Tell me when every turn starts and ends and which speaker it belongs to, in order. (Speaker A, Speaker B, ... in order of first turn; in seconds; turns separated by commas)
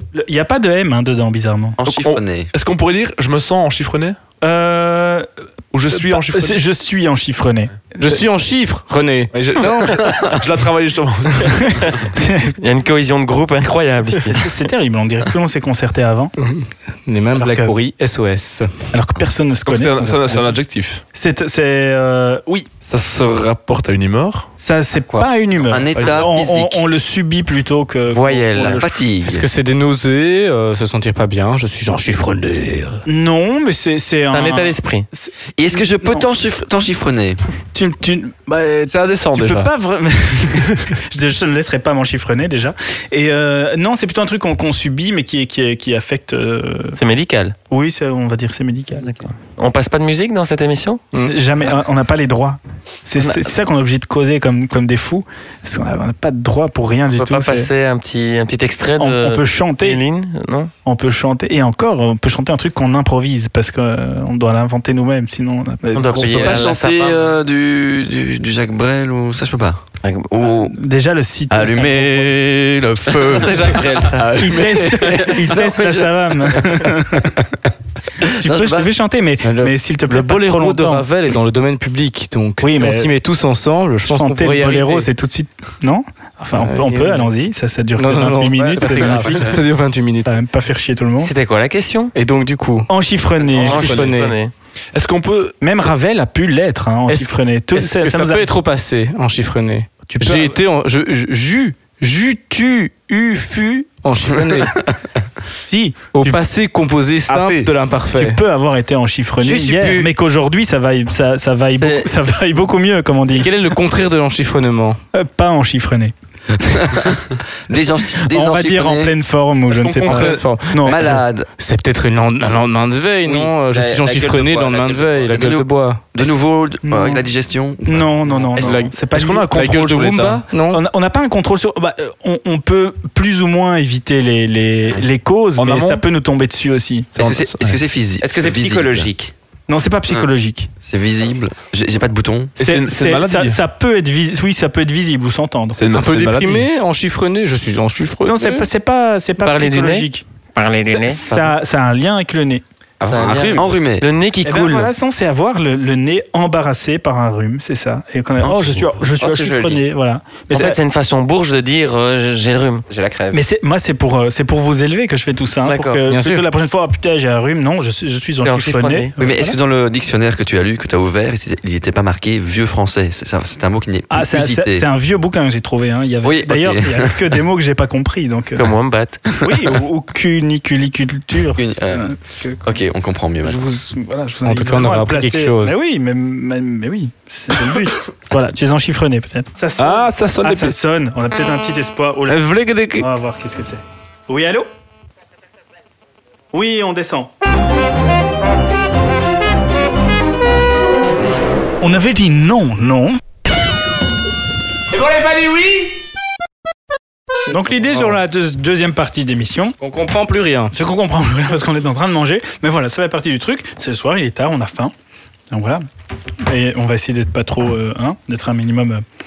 Speaker A: 0.1-1.8, Speaker B: 1.8-2.5, Speaker C: 1.8-4.2, Speaker A: 4.4-5.3, Speaker C: 5.7-6.6, Speaker A: 5.9-8.2, Speaker D: 8.0-10.1, Speaker C: 9.3-12.0, Speaker B: 10.1-10.3, Speaker A: 11.4-12.5, Speaker E: 11.8-14.5, Speaker A: 14.3-16.3, Speaker D: 16.4-18.8, Speaker A: 17.4-17.7, Speaker A: 18.9-20.6, Speaker C: 19.6-21.0, Speaker A: 21.1-22.7, Speaker C: 22.9-24.5, Speaker A: 24.6-28.9, Speaker B: 25.6-26.8, Speaker E: 28.1-28.8, Speaker B: 28.5-29.4, Speaker D: 29.2-33.0, Speaker A: 33.0-36.2, Speaker E: 34.3-35.1, Speaker B: 35.6-37.4, Speaker A: 37.7-47.0, Speaker C: 38.9-39.7, Speaker E: 47.0-47.5, Speaker A: 47.7-49.1, Speaker E: 49.0-51.0, Speaker A: 51.2-57.7, Speaker E: 53.2-53.5, Speaker E: 57.1-60.7, Speaker A: 59.0-60.0, Speaker A: 60.8-66.6, Speaker E: 65.9-67.3, Speaker B: 66.2-70.8, Speaker E: 70.0-70.3, Speaker A: 70.7-72.3, Speaker B: 71.5-76.2, Speaker E: 73.1-74.4, Speaker A: 74.3-77.3, Speaker B: 78.2-78.9, Speaker A: 78.4-81.0, Speaker D: 79.4-85.1, Speaker A: 82.6-83.1, Speaker A: 84.0-89.5, Speaker D: 86.5-87.3, Speaker D: 88.0-90.3, Speaker F: 88.9-89.3, Speaker A: 90.2-91.3, Speaker E: 91.2-92.1, Speaker D: 92.1-92.9, Speaker A: 92.9-94.0, Speaker E: 93.6-94.5, Speaker D: 93.6-94.4, Speaker C: 93.7-94.1, Speaker C: 94.9-95.5, Speaker A: 95.6-98.5, Speaker D: 97.1-104.8, Speaker A: 100.0-100.6, Speaker A: 105.6-106.4, Speaker D: 106.1-108.4, Speaker A: 107.3-113.5, Speaker D: 109.4-110.1, Speaker E: 111.8-112.2, Speaker D: 113.3-115.0, Speaker A: 115.1-117.1, Speaker B: 116.7-119.1, Speaker A: 118.1-121.2, Speaker C: 119.7-120.5, Speaker D: 120.0-126.1, Speaker B: 120.8-121.5, Speaker F: 123.2-125.4, Speaker B: 125.2-128.6, Speaker A: 126.8-127.2, Speaker A: 127.8-129.5, Speaker D: 128.5-130.8, Speaker C: 129.0-130.4, Speaker A: 130.7-137.1, Speaker C: 135.6-136.0, Speaker C: 137.2-137.8, Speaker B: 137.2-139.1, Speaker F: 138.2-139.3, Speaker A: 139.7-140.7, Speaker B: 140.8-142.5, Speaker C: 142.6-143.6, Speaker A: 142.6-145.8, Speaker C: 145.8-146.7, Speaker D: 145.9-148.4, Speaker A: 148.2-150.2, Speaker E: 149.4-151.6, Speaker A: 150.8-152.6, Speaker F: 153.0-153.7, Speaker E: 153.1-154.9, Speaker B: 153.5-154.1, Speaker A: 154.4-160.8, Speaker F: 159.2-159.8, Speaker E: 160.5-162.8, Speaker F: 162.9-163.4, Speaker A: 163.3-169.6, Speaker E: 165.7-166.0, Speaker D: 166.1-166.4, Speaker E: 168.4-169.1, Speaker B: 169.2-174.9, Speaker A: 174.1-178.7, Speaker B: 176.2-177.4, Speaker E: 178.6-179.3, Speaker A: 179.4-182.6, Speaker B: 181.6-182.1, Speaker B: 182.6-183.6, Speaker A: 183.4-194.7, Speaker D: 184.4-185.8, Speaker C: 189.8-190.8, Speaker C: 192.3-193.1, Speaker A: 196.5-197.3, Speaker A: 201.8-203.2, Speaker D: 204.9-205.6, Speaker A: 207.5-209.7, Speaker D: 207.9-208.2, Speaker D: 209.8-210.7, Speaker A: 210.7-214.9, Speaker A: 215.5-215.8, Speaker A: 216.4-219.0